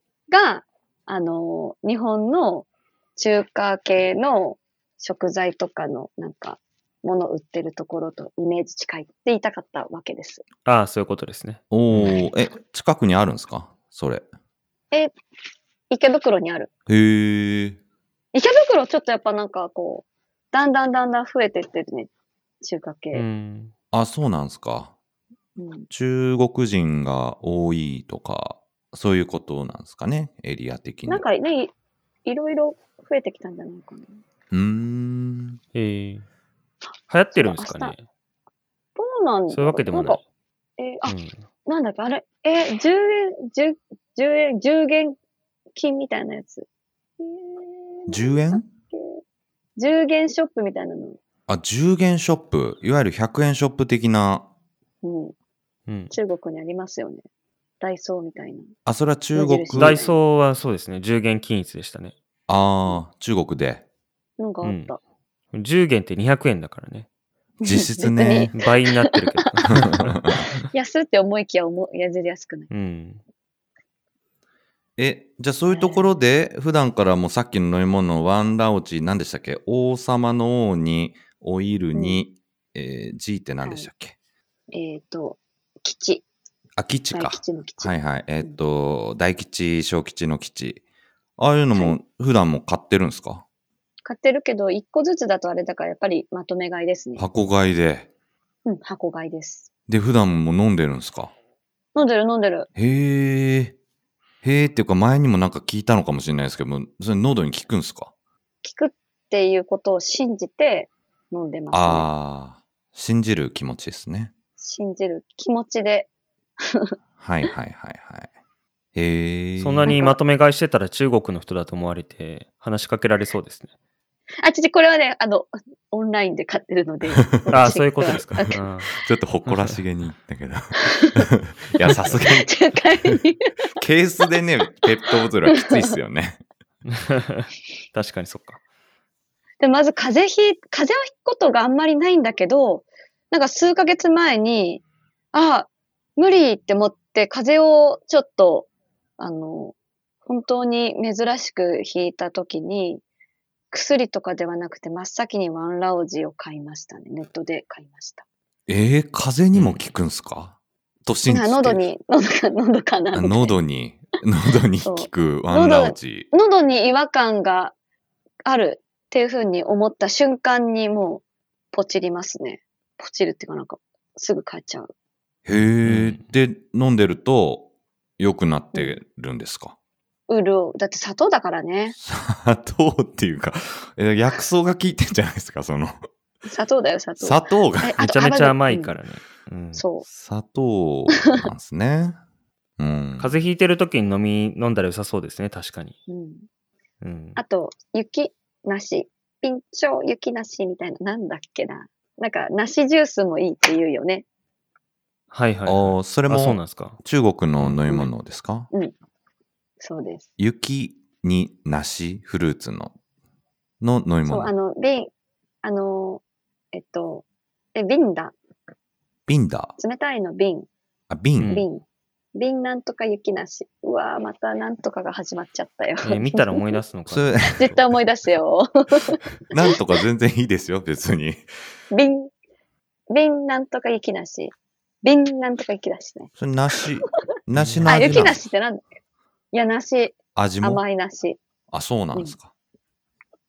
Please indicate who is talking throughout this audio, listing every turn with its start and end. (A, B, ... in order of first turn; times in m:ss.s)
0:00.3-0:10.4 A
0:10.6-0:12.2 B
0:11.7-0:14.2 C
0:15.9-0:16.7 A
0:16.9-0:17.8 C
0:18.3-0:22.1 A
0:22.6-0:23.2 A
0:23.1-0:23.7 B
0:23.9-0:24.9 C
0:25.6-0:25.9 A
0:25.9-0:31.2 C
0:31.1-0:31.7 A
0:32.2-0:34.2 A
0:34.5-0:35.6 C
0:35.7-0:36.2 B
0:37.1-0:38.0 B
0:37.4-0:37.9 A
0:39.0-0:40.2 A
0:39.5-0:40.2 B
0:40.8-0:41.1 A
0:41.0-0:41.4 B
0:41.6-0:45.2 A
0:45.8-0:46.6 A
0:47.2-0:49.2 A
0:48.1-0:48.7 C
0:49.8-0:51.2 A
0:51.5-0:54.5 C
0:55.0-0:55.3 A
0:55.9-0:56.1 B
0:56.1-0:57.2 A
0:57.8-0:58.7 A
0:58.8-1:00.0 C
0:59.3-1:00.2 A
0:59.8-1:02.1 B
1:02.5-1:03.8 C
1:04.4-1:05.0 A
1:04.6-1:04.9 B
1:05.5-1:07.1 B
1:07.6-1:09.7 A
1:07.6-1:08.5 C
1:08.5-1:10.6 B
1:09.7-1:10.4 C
1:10.3-1:12.7 A
1:12.7-1:13.2 B
1:15.0-1:24.1 C
1:15.7-1:16.1 A
1:22.0-1:22.2 A
1:24.7-1:26.2 A
1:26.8-1:30.8 C
1:27.1-1:28.6 A
1:31.4-1:33.4 C
1:34.0-1:37.2 A
1:37.2-1:38.1 C
1:38.6-1:39.7 A
1:39.9-1:41.3 C
1:41.9-1:42.7 A
1:42.8-1:43.7 C
1:44.4-1:48.1 C
1:48.6-1:52.1 A
1:51.7-1:54.3 C
1:54.6-1:56.1 A
1:56.6-1:56.9 A
1:57.2-1:58.3 C
1:58.9-1:59.9 C
1:59.6-2:03.7 B
1:59.8-2:00.2 A
2:04.4-2:08.6 A
2:07.2-2:07.7 C
2:07.5-2:08.9 B
2:09.0-2:12.5 C
2:09.4-2:09.8 B
2:10.8-2:13.7 A
2:13.8-2:16.4 C
2:14.8-2:16.0 A
2:16.9-2:18.6 B
2:19.6-2:28.7 A
2:29.2-2:29.7 A
2:30.2-2:33.0 A
2:33.7-2:38.2 A
2:38.7-2:41.8 C
2:39.5-2:39.8 B
2:41.3-2:43.6 A
2:43.1-2:46.3 C
2:44.8-2:47.7 A
2:48.4-2:54.9 A
2:55.4-2:57.7 C
2:55.8-2:56.2 B
2:58.2-2:59.8 C
3:00.3-3:02.0 A
3:02.0-3:06.0 C
3:06.4-3:08.9 A
3:07.2-3:08.1 C
3:08.0-3:09.8 B
3:09.7-3:10.0 A
3:10.1-3:12.2 C
3:11.2-3:11.5 A
3:12.8-3:13.3 C
3:13.2-3:15.9 B
3:16.1-3:16.4 A
3:17.0-3:17.4 B
3:17.4-3:24.2 A
3:25.3-3:27.0 B
3:25.6-3:28.7 C
3:27.8-3:28.1 A
3:29.8-3:30.3 A
3:30.4-3:32.9 C
3:33.8-3:34.5 C
3:34.2-3:35.1 A
3:35.6-3:36.2 A
3:36.7-3:38.3 A
3:39.3-3:39.7 C
3:39.8-3:40.7 A
3:41.1-3:41.6 C
3:41.4-3:41.7 B
3:41.5-3:41.8 A
3:42.3-3:46.8 A
3:46.0-3:47.8 B
3:47.1-3:47.6 C
3:47.5-3:49.8 A
3:49.5-3:51.4 C
3:51.9-3:52.3 A
3:53.1-3:56.3 A
3:56.4-3:58.4 C
3:57.5-3:58.3 B
3:57.9-3:58.8 A
3:59.5-4:01.4 A
4:00.3-4:00.8 C
4:01.7-4:02.5 C